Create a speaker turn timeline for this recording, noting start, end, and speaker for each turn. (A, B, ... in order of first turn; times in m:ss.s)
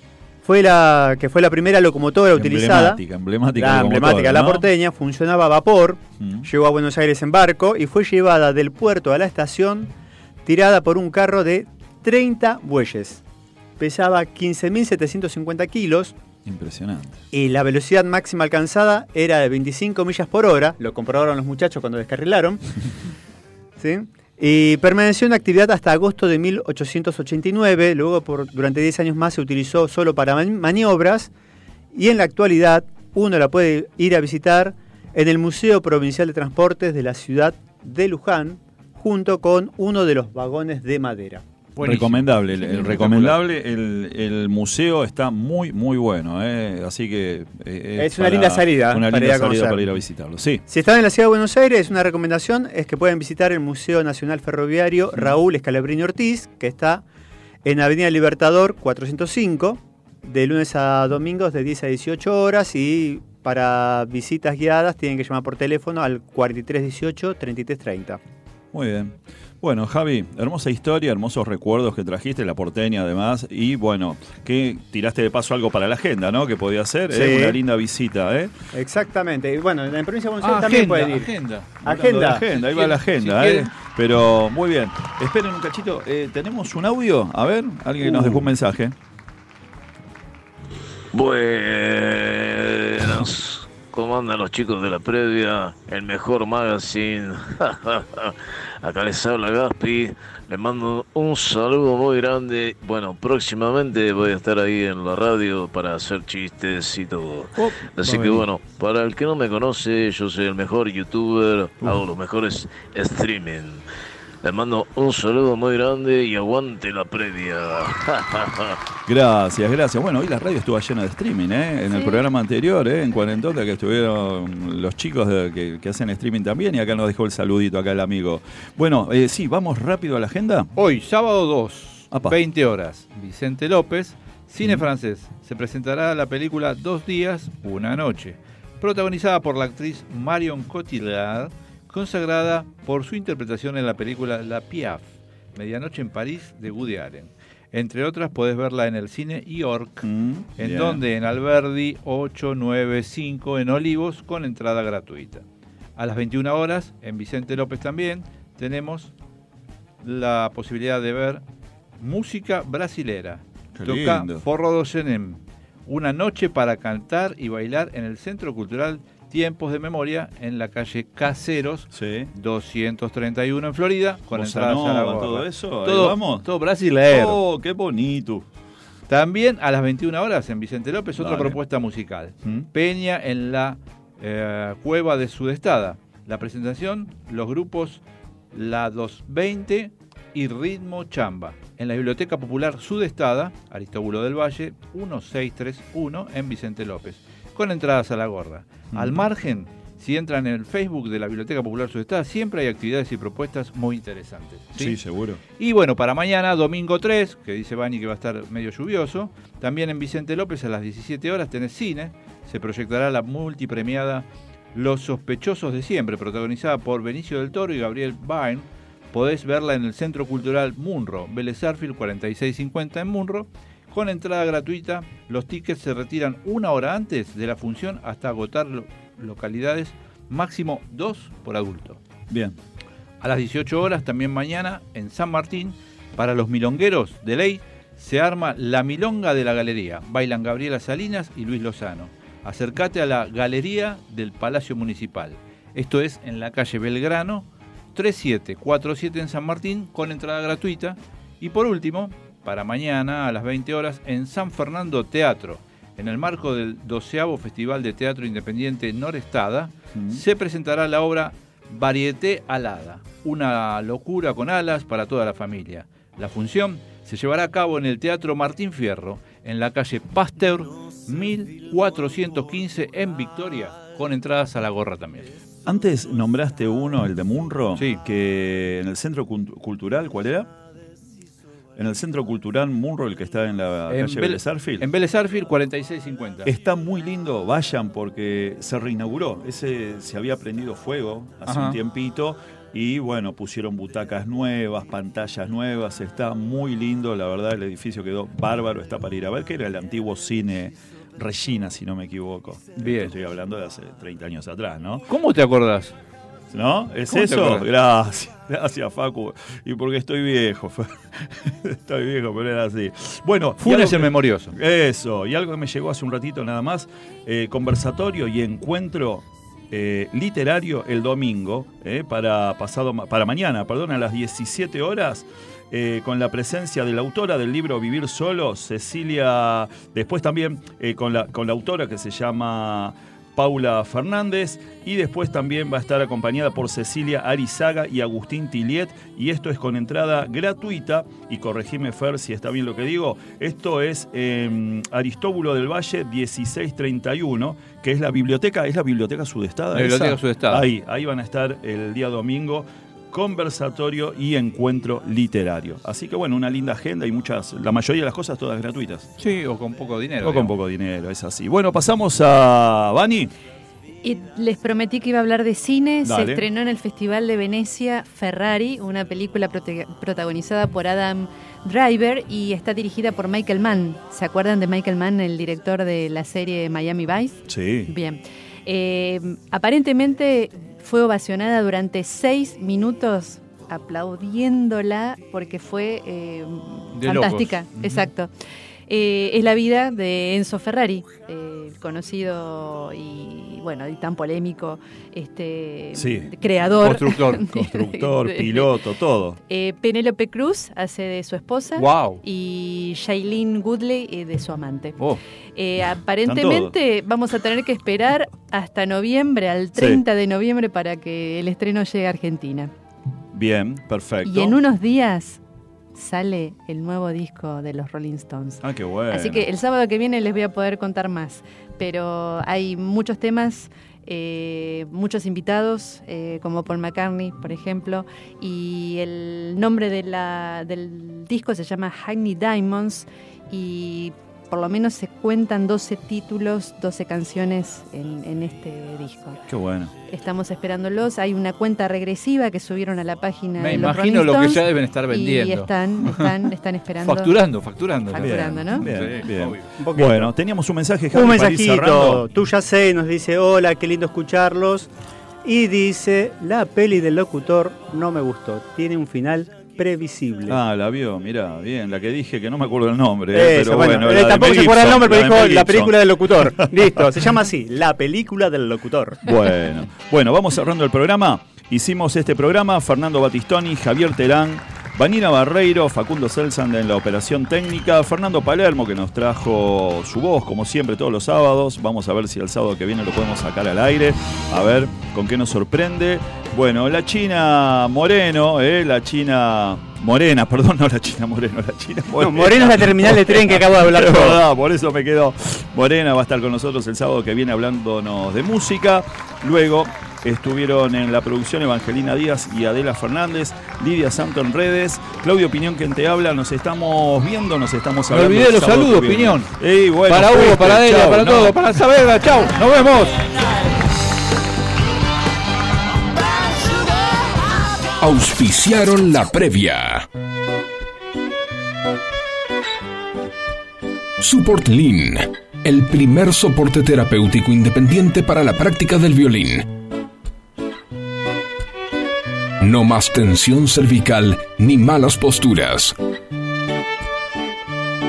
0:00.4-0:03.0 A
0:02.3-0:04.6 B
0:03.6-0:09.9 A
0:06.2-0:06.5 B
0:10.4-0:13.2 A
0:13.8-0:16.1 A
0:16.4-0:17.2 B
0:17.3-0:22.8 A
0:23.8-0:31.3 A
0:31.9-0:41.4 A
0:41.8-0:43.4 C
0:41.8-0:50.6 B
0:48.0-0:49.8 A
0:50.7-0:57.0 A
0:57.6-1:08.2 A
1:08.7-1:18.5 B
1:17.1-1:17.6 A
1:18.7-1:21.3 A
1:20.4-1:21.7 C
1:21.8-1:28.9 B
1:21.8-1:22.4 A
1:22.4-1:23.7 C
1:31.1-1:53.8 D
1:47.6-1:48.4 B
1:54.4-1:58.8 D
1:59.1-2:10.7 B
2:10.7-2:30.0 C
2:12.1-2:12.4 B
2:30.0-2:31.0 B
2:30.6-2:35.4 C
2:36.0-2:39.1 C
2:40.0-2:41.4 C
2:42.0-2:57.4 C
2:43.8-2:44.4 B
2:51.9-2:52.3 B
2:54.3-2:56.4 B
2:57.1-2:58.4 B
2:59.1-3:08.0 C
3:01.2-3:01.6 B
3:08.5-3:25.0 C
3:18.9-3:19.2 B
3:24.8-3:25.4 B
3:25.6-3:52.0 C
3:52.3-3:52.6 B
3:53.2-4:35.3 C
4:19.9-4:20.2 B
4:35.6-4:40.5 B
4:37.8-4:38.0 C
4:41.8-4:44.9 B
4:43.9-4:46.5 C
4:46.4-5:05.1 B
4:51.5-4:51.8 C
5:02.8-5:03.1 C
5:05.1-5:05.9 C
5:06.5-5:59.1 B
5:07.1-5:07.6 C
5:13.6-5:14.5 C
5:49.7-5:50.7 C
5:59.2-6:00.5 C
6:00.2-6:03.3 B
6:04.0-6:28.3 E
6:06.0-6:06.4 B
6:17.5-6:17.9 B
6:26.9-6:27.8 C
6:28.9-6:38.7 E
6:35.9-6:36.3 B
6:36.8-6:37.5 C
6:37.4-6:39.4 B
6:39.5-6:45.0 E
6:41.8-6:42.2 C
6:45.6-6:52.7 E
6:46.2-6:46.7 B
6:49.8-6:50.0 B
6:53.3-6:54.6 B
6:54.2-6:55.4 E
6:55.9-7:19.4 E
6:58.6-6:59.5 B
7:19.5-7:19.9 B
7:20.1-7:27.3 E
7:23.6-7:26.2 C
7:27.0-7:29.7 C
7:28.1-7:28.9 E
7:28.1-7:32.2 B
7:29.8-7:30.3 A
7:31.1-7:34.9 A
7:35.4-7:40.6 A
7:40.5-7:46.5 B
7:43.3-7:49.3 A
7:49.2-8:31.6 B
8:12.2-8:14.4 A
8:28.1-8:29.5 C
8:30.0-8:33.3 C
8:38.0-8:40.0 F
8:44.2-8:49.7 F
8:52.6-8:55.9 F